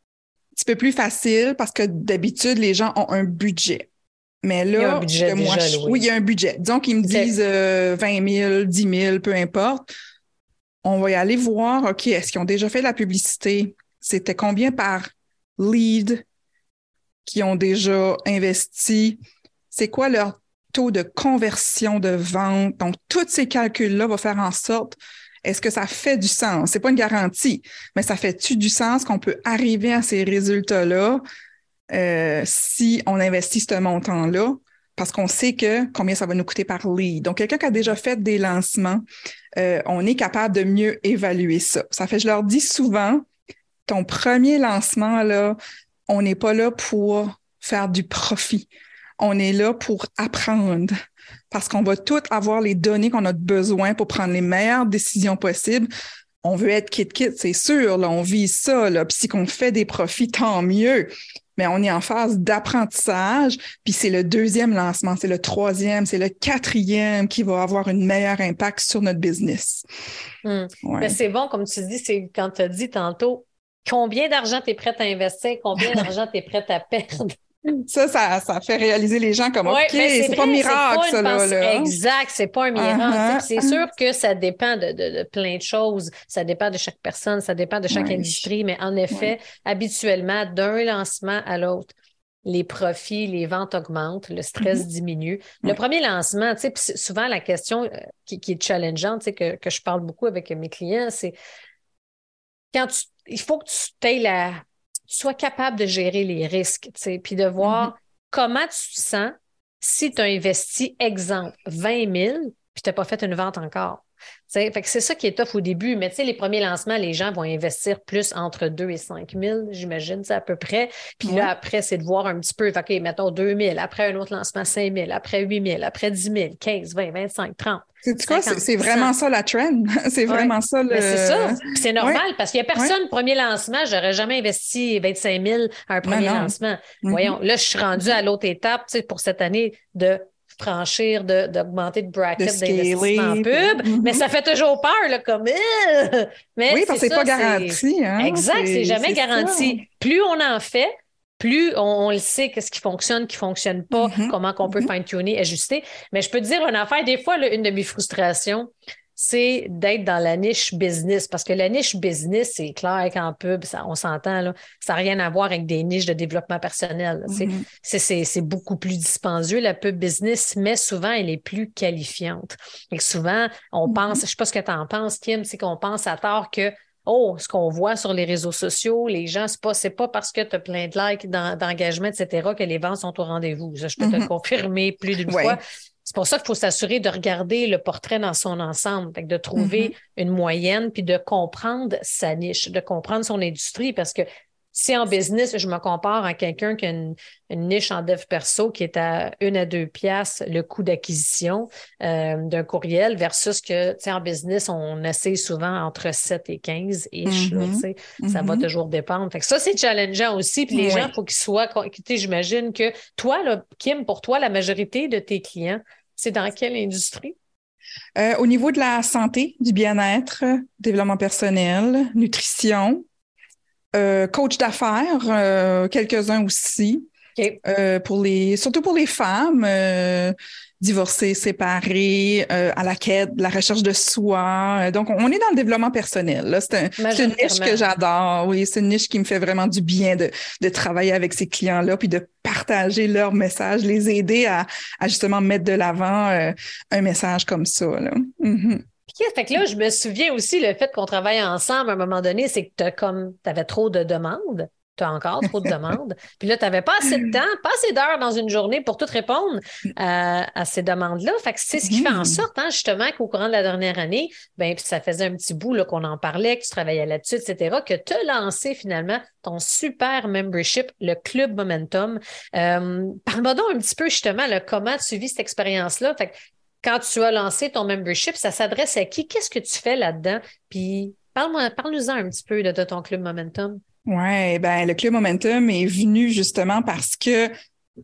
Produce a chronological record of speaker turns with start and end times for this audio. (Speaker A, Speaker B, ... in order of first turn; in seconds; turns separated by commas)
Speaker A: 0.6-3.9, Speaker A: 4.4-9.9, Speaker B: 4.8-6.0, Speaker B: 7.0-7.3, Speaker A: 10.8-16.2, Speaker A: 17.2-19.2, Speaker A: 19.7-31.2, Speaker A: 31.9-39.0, Speaker A: 39.6-43.2, Speaker A: 43.9-45.6, Speaker A: 46.1-50.9, Speaker A: 51.5-55.9, Speaker A: 56.4-69.8, Speaker B: 70.4-77.3, Speaker A: 70.8-71.2, Speaker A: 75.8-76.1, Speaker A: 77.7-82.0, Speaker B: 79.7-91.9, Speaker A: 82.8-83.8, Speaker A: 87.9-88.5, Speaker B: 92.5-101.3, Speaker B: 102.7-129.1, Speaker A: 107.6-107.9, Speaker A: 121.2-121.5, Speaker A: 128.0-132.2, Speaker B: 130.3-217.4, Speaker A: 136.0-137.3, Speaker A: 142.4-144.2, Speaker A: 146.7-149.8, Speaker A: 153.9-154.9, Speaker A: 167.3-167.7, Speaker A: 173.9-174.2, Speaker A: 184.0-184.3, Speaker A: 185.3-185.6, Speaker A: 189.6-189.9, Speaker A: 207.3-208.7, Speaker A: 210.7-211.1, Speaker A: 218.2-223.1, Speaker A: 223.9-227.1, Speaker A: 227.6-248.8, Speaker B: 237.0-237.8, Speaker B: 249.1-283.8, Speaker A: 261.8-262.4, Speaker A: 284.1-287.5